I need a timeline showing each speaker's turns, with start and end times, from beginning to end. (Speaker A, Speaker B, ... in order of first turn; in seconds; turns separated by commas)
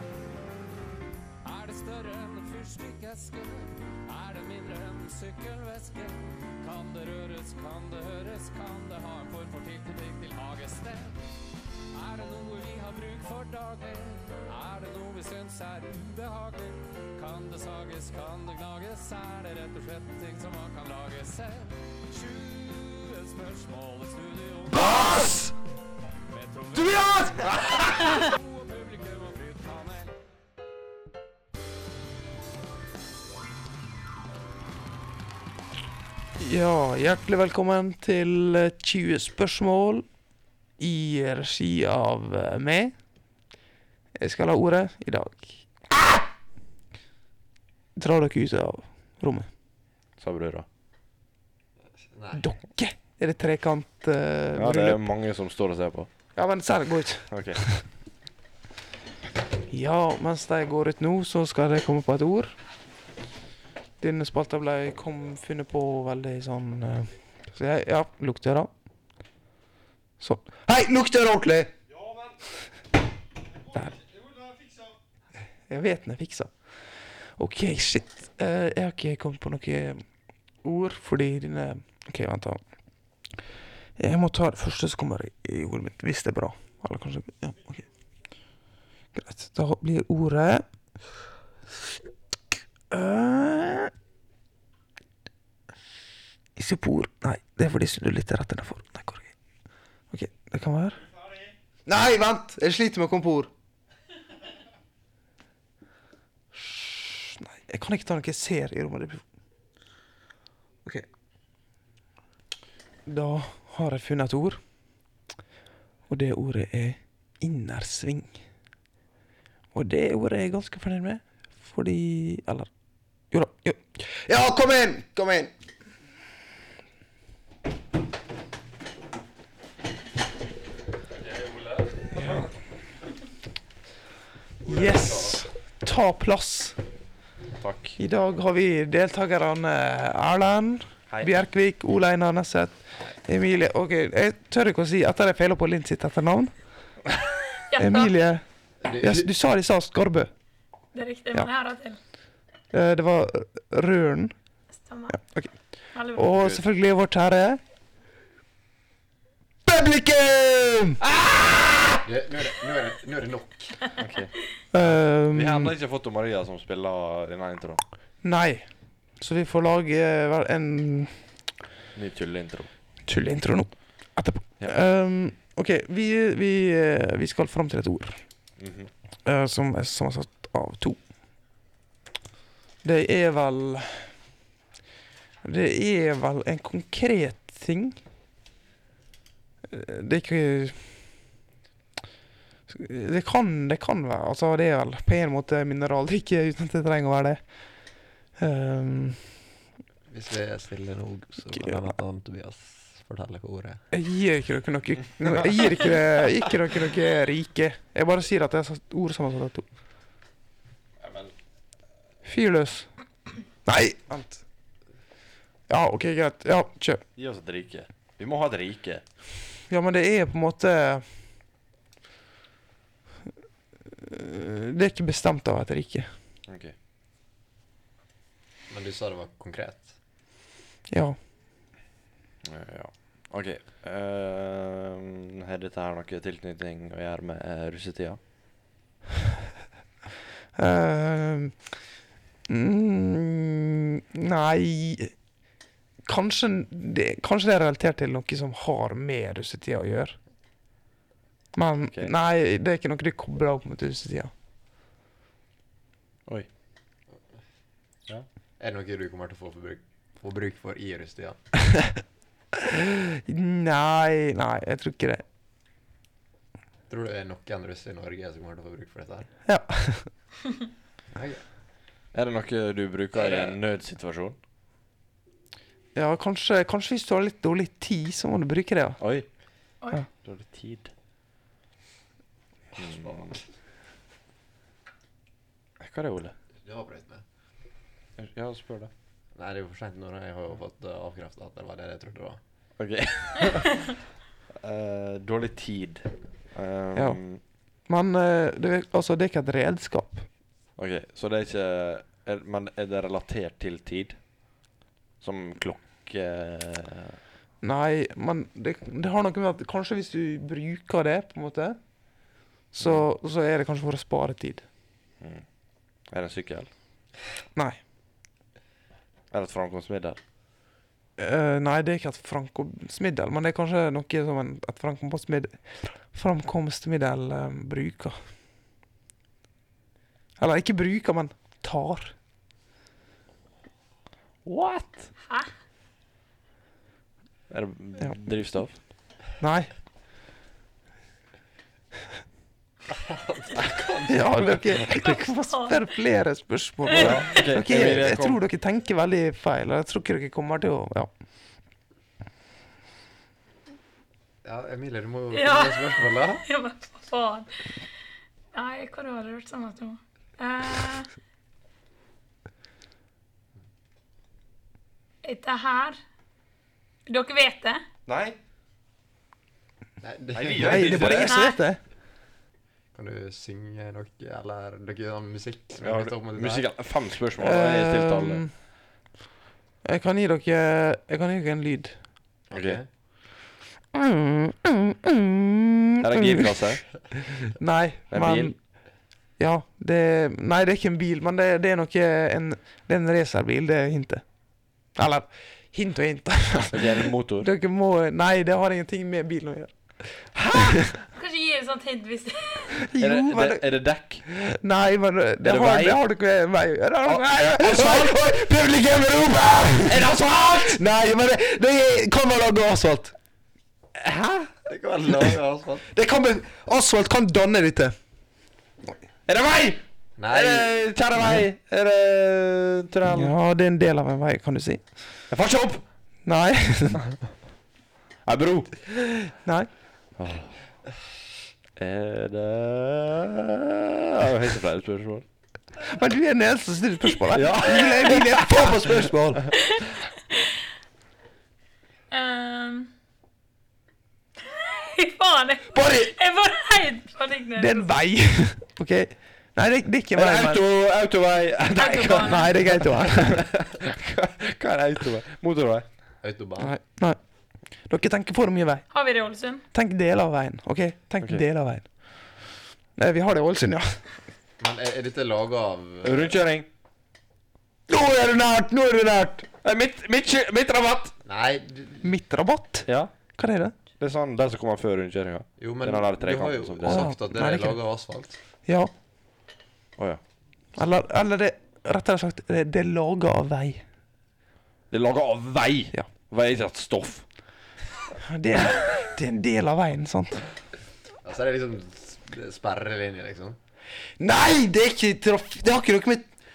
Speaker A: 1.4-11.2, Speaker A: 11.9-25.3, Speaker B: 25.0-25.3, Speaker A: 26.3-30.1, Speaker C: 36.4-40.1, Speaker C: 40.8-42.9, Speaker C: 44.2-45.6, Speaker C: 48.0-49.5, Speaker B: 50.2-50.7, Speaker D: 52.1-52.5, Speaker C: 52.4-55.0, Speaker B: 54.5-56.1, Speaker C: 56.4-57.8, Speaker B: 57.3-57.6, Speaker C: 59.7-62.6, Speaker C: 64.0-68.7, Speaker C: 70.2-71.7, Speaker C: 75.7-80.0, Speaker C: 80.6-82.6, Speaker C: 84.0-87.9, Speaker C: 89.1-90.7, Speaker C: 92.9-93.9, Speaker C: 96.6-99.3, Speaker C: 100.1-101.0, Speaker C: 101.9-103.5, Speaker C: 106.5-109.2, Speaker C: 113.1-114.6, Speaker C: 116.1-118.4, Speaker C: 119.7-122.7, Speaker C: 123.3-125.5, Speaker B: 131.2-132.5, Speaker C: 132.1-132.5, Speaker B: 134.6-135.4, Speaker C: 134.7-136.8, Speaker B: 137.6-138.0, Speaker C: 138.0-147.0, Speaker B: 141.1-141.4, Speaker E: 147.7-148.2, Speaker C: 147.8-148.4, Speaker D: 148.8-149.3, Speaker C: 149.0-150.3, Speaker E: 150.9-152.0, Speaker C: 152.7-154.3, Speaker E: 154.7-156.3, Speaker C: 155.2-157.6, Speaker B: 156.3-156.6, Speaker C: 159.7-161.0, Speaker D: 162.0-163.9, Speaker B: 164.0-167.8, Speaker C: 164.7-165.7, Speaker C: 168.2-171.4, Speaker B: 171.9-172.7, Speaker C: 173.1-178.4, Speaker B: 178.6-178.9, Speaker C: 179.2-181.0, Speaker C: 182.8-184.1, Speaker C: 185.4-188.0, Speaker C: 189.7-191.1, Speaker C: 192.7-199.3, Speaker D: 200.1-203.8, Speaker C: 201.5-201.8, Speaker C: 203.9-209.7, Speaker B: 211.0-211.3, Speaker C: 212.2-214.4, Speaker C: 215.7-217.0, Speaker B: 217.2-219.0, Speaker C: 219.7-221.1, Speaker C: 224.0-226.1, Speaker B: 226.5-226.8, Speaker D: 228.7-230.0, Speaker C: 230.9-231.2, Speaker B: 232.4-238.2, Speaker C: 240.6-241.8, Speaker C: 242.5-245.2, Speaker C: 246.0-250.2, Speaker C: 251.5-254.3, Speaker B: 251.9-252.1, Speaker D: 258.6-261.4, Speaker C: 262.7-265.2, Speaker D: 266.9-269.3, Speaker C: 269.5-270.1, Speaker D: 271.1-271.4, Speaker B: 272.1-274.4, Speaker D: 273.2-273.5, Speaker C: 275.9-279.1, Speaker B: 279.0-279.3, Speaker B: 280.2-280.9, Speaker B: 282.8-283.3, Speaker D: 282.8-283.4, Speaker B: 285.8-286.3, Speaker D: 286.6-287.2, Speaker B: 288.2-288.9, Speaker D: 289.4-292.4, Speaker B: 292.8-293.9, Speaker B: 294.5-297.4, Speaker C: 296.9-300.3, Speaker B: 300.8-304.7, Speaker B: 305.2-307.2, Speaker C: 307.6-314.6, Speaker B: 312.8-313.1, Speaker B: 315.2-315.5, Speaker B: 316.1-316.7, Speaker B: 319.3-320.2, Speaker C: 321.2-328.2, Speaker C: 330.4-332.1, Speaker B: 334.4-335.1, Speaker B: 337.5-338.8, Speaker C: 339.4-339.7, Speaker D: 342.9-344.6, Speaker C: 344.1-351.1, Speaker E: 344.9-345.8, Speaker E: 346.9-347.2, Speaker B: 346.9-348.4, Speaker D: 354.4-356.4, Speaker E: 355.3-357.8, Speaker E: 358.5-361.1, Speaker E: 365.2-366.0, Speaker E: 367.1-367.8, Speaker B: 368.1-368.4, Speaker D: 370.0-371.2, Speaker B: 370.3-371.4, Speaker C: 370.6-371.8, Speaker E: 371.2-371.6, Speaker D: 372.9-376.7, Speaker B: 375.8-378.5, Speaker C: 377.4-378.5, Speaker C: 379.8-382.0, Speaker D: 382.5-382.9, Speaker B: 382.5-382.8, Speaker C: 383.9-386.9, Speaker B: 386.0-386.9, Speaker C: 387.5-400.9, Speaker B: 388.1-388.5, Speaker B: 396.7-397.5, Speaker B: 400.4-400.8, Speaker E: 401.1-402.8, Speaker C: 402.8-410.1, Speaker B: 403.0-404.2, Speaker B: 405.4-406.0, Speaker B: 407.0-408.5, Speaker B: 409.9-410.8, Speaker C: 410.7-413.1, Speaker B: 414.0-414.5, Speaker D: 414.7-415.9, Speaker C: 415.9-417.9, Speaker B: 419.3-423.4, Speaker D: 420.2-420.8, Speaker C: 421.2-421.4, Speaker C: 423.1-425.2, Speaker B: 425.3-425.8, Speaker C: 426.2-427.1, Speaker B: 428.2-428.7, Speaker C: 429.2-429.7, Speaker B: 430.1-430.6, Speaker B: 431.8-435.3, Speaker C: 435.8-439.5, Speaker B: 437.3-439.8, Speaker E: 437.6-438.1, Speaker E: 442.1-442.9, Speaker E: 444.4-447.9, Speaker C: 445.7-446.1, Speaker C: 447.6-450.6, Speaker B: 450.1-455.9, Speaker E: 451.8-452.5, Speaker C: 452.1-453.6, Speaker D: 456.2-456.7, Speaker C: 456.6-458.9, Speaker E: 458.9-459.6, Speaker C: 459.7-464.1, Speaker D: 464.6-466.4, Speaker B: 466.0-466.7, Speaker C: 467.9-469.5, Speaker B: 469.6-471.2, Speaker D: 471.2-472.1, Speaker C: 472.0-473.8, Speaker B: 472.9-473.1, Speaker B: 474.0-477.1, Speaker D: 475.6-478.4, Speaker C: 476.8-477.8, Speaker C: 478.6-478.9, Speaker C: 480.8-483.8, Speaker B: 484.9-487.2, Speaker C: 488.2-490.5, Speaker D: 491.2-493.6, Speaker C: 494.2-496.3